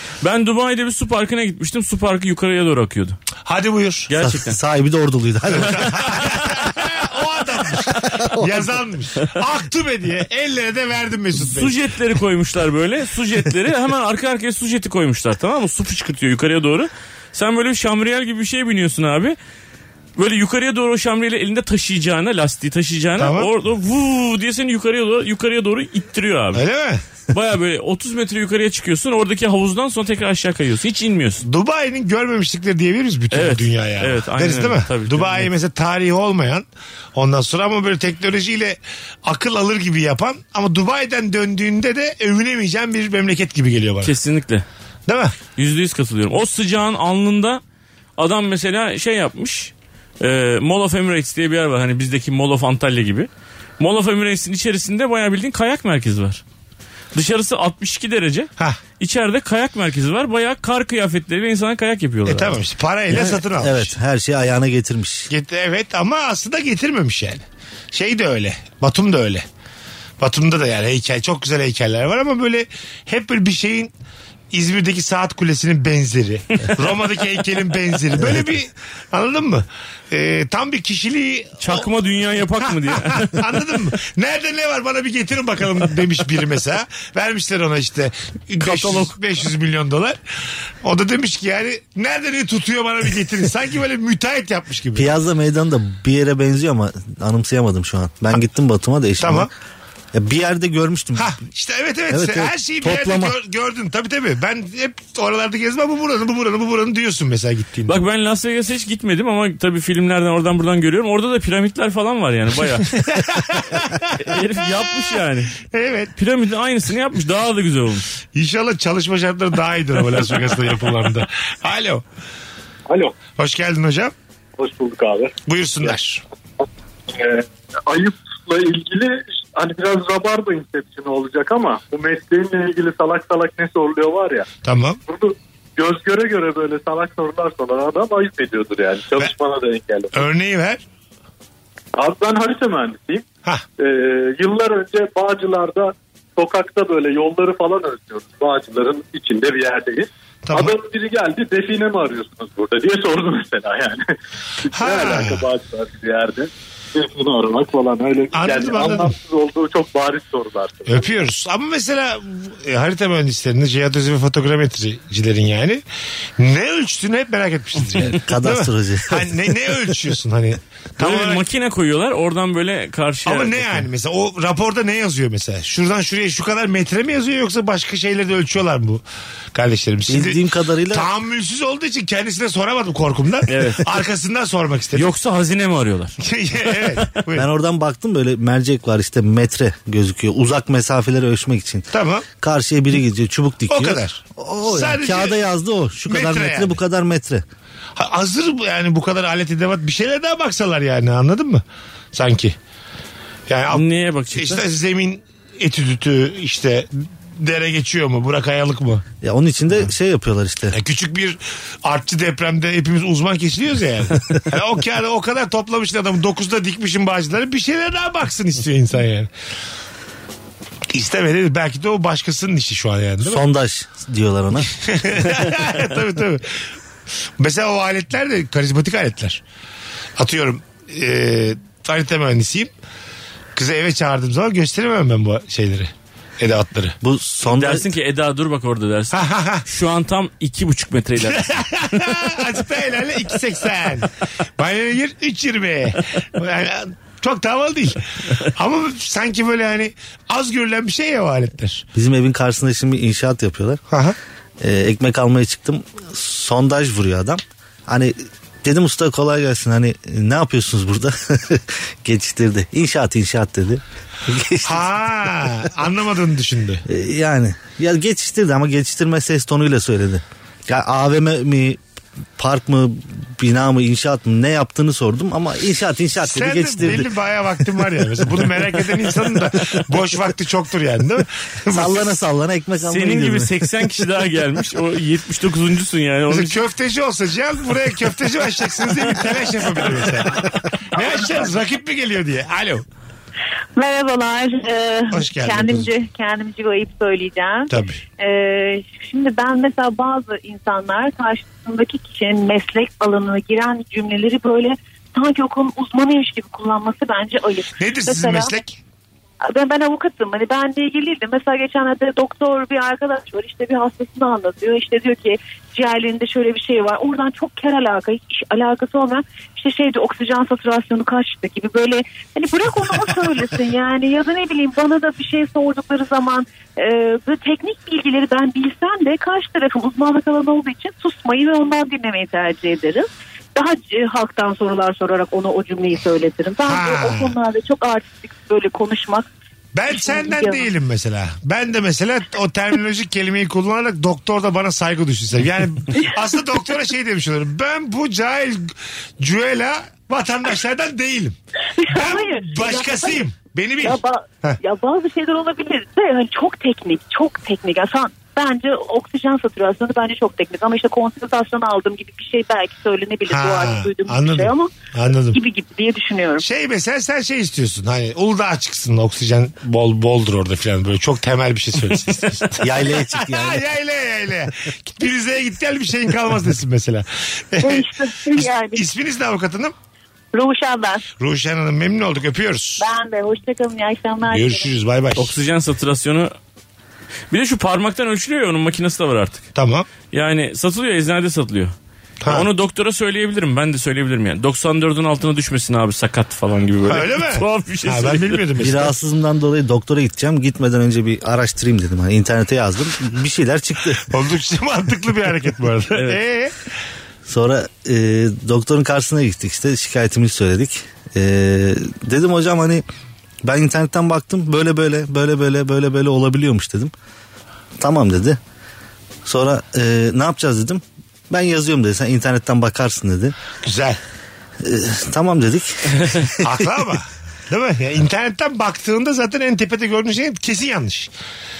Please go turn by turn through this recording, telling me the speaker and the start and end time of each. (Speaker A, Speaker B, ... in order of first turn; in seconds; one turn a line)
Speaker A: 0.2-3.2
Speaker B: 3.4-4.1
Speaker A: 4.1-4.6
Speaker C: 4.2-6.5
Speaker B: 5.5-11.8
Speaker C: 8.1-8.6
Speaker A: 11.4-19.4
Speaker A: 20.2-26.6
Speaker B: 23.2-23.5
Speaker B: 26.5-27.0
Speaker A: 27.3-31.4
Speaker B: 31.4-44.1
Speaker A: 33.3-35.5
Speaker A: 44.0-44.6
Speaker B: 45.1-45.3
Speaker A: 45.5-47.6
Speaker A: 48.2-56.4
Speaker A: 57.1-62.6
Speaker B: 62.2-63.9
Speaker C: 63.1-65.3
Speaker B: 65.3-69.4
Speaker B: 70.2-73.9
Speaker B: 74.5-81.8
Speaker A: 81.6-83.4
Speaker B: 82.7-90.2
Speaker A: 88.6-89.1
Speaker B: 90.8-95.1
Speaker C: 94.9-99.5
Speaker B: 99.2-99.5
Speaker C: 100.1-101.3
Speaker B: 101.2-107.9
Speaker C: 102.1-103.3
Speaker A: 107.9-112.9
Speaker B: 112.9-114.1
Speaker A: 114.2-115.6
Speaker B: 115.6-116.1
Speaker A: 116.2-118.1
Speaker B: 118.3-122.0
Speaker D: 122.9-123.2
Speaker B: 123.3-124.1
Speaker D: 124.6-125.9
Speaker B: 125.5-126.2
Speaker D: 127.1-134.5
Speaker B: 134.6-135.0
Speaker D: 135.1-140.3
Speaker B: 140.1-140.8
Speaker D: 141.9-143.3
Speaker D: 143.8-154.1
Speaker B: 150.5-150.7
Speaker D: 154.6-161.1
Speaker B: 154.7-155.4
Speaker B: 158.3-159.1
Speaker B: 160.9-165.8
Speaker B: 166.4-171.4
Speaker C: 168.0-169.5
Speaker A: 171.0-173.9
Speaker B: 173.2-179.0
Speaker B: 179.5-185.1
Speaker C: 180.1-181.1
Speaker A: 183.5-183.8
Speaker A: 184.9-186.1
Speaker B: 186.2-187.5
Speaker C: 187.3-197.4
Speaker B: 191.9-192.2
Speaker B: 193.7-195.4
Speaker B: 196.1-196.8
Speaker B: 197.9-202.6
Speaker B: 203.5-209.0
Speaker A: 203.7-204.6
Speaker C: 209.2-210.8
Speaker B: 210.7-219.3
Speaker B: 220.9-223.4
Speaker C: 223.2-224.7
Speaker B: 224.8-226.5
Speaker B: 227.4-229.4
Speaker B: 230.2-232.7
Speaker B: 233.5-236.9
Speaker C: 237.0-237.9
Speaker A: 237.4-242.0
Speaker B: 239.1-239.6
Speaker B: 241.2-251.8
Speaker C: 251.9-253.8
Speaker B: 253.9-254.2
Speaker C: 254.6-265.6
Speaker B: 264.6-266.8
Speaker C: 266.9-271.8
Speaker C: 272.4-277.1
Speaker B: 276.2-282.1
Speaker C: 281.7-283.7
Speaker A: 282.8-286.6
Speaker B: 286.3-292.8
Speaker E: 293.8-308.5
Speaker B: 295.1-295.9
Speaker B: 297.7-298.0
Speaker B: 307.8-308.8
Speaker E: 309.5-339.2
Speaker B: 336.7-337.3
Speaker B: 339.7-351.4
Speaker E: 339.9-340.7
Speaker E: 351.8-353.2
Speaker B: 351.9-354.6
Speaker E: 353.8-364.7
Speaker B: 363.3-365.4
Speaker E: 365.3-366.4
Speaker B: 366.4-379.7
Speaker C: 372.6-373.6
Speaker E: 377.6-378.9
Speaker E: 380.3-381.0
Speaker B: 381.2-382.8
Speaker E: 382.8-384.7
Speaker B: 384.3-385.3
Speaker A: 385.1-386.3
Speaker A: 387.3-389.4
Speaker B: 389.5-389.9
Speaker A: 390.1-391.7
Speaker B: 392.2-392.5
Speaker A: 392.3-398.4
Speaker B: 396.9-398.9
Speaker C: 398.6-404.0
Speaker B: 404.1-406.5
Speaker C: 407.2-412.8
Speaker C: 413.4-416.9
Speaker C: 417.8-418.4
Speaker C: 419.2-423.3
Speaker B: 423.6-424.0
Speaker C: 424.6-426.7
Speaker B: 426.4-431.1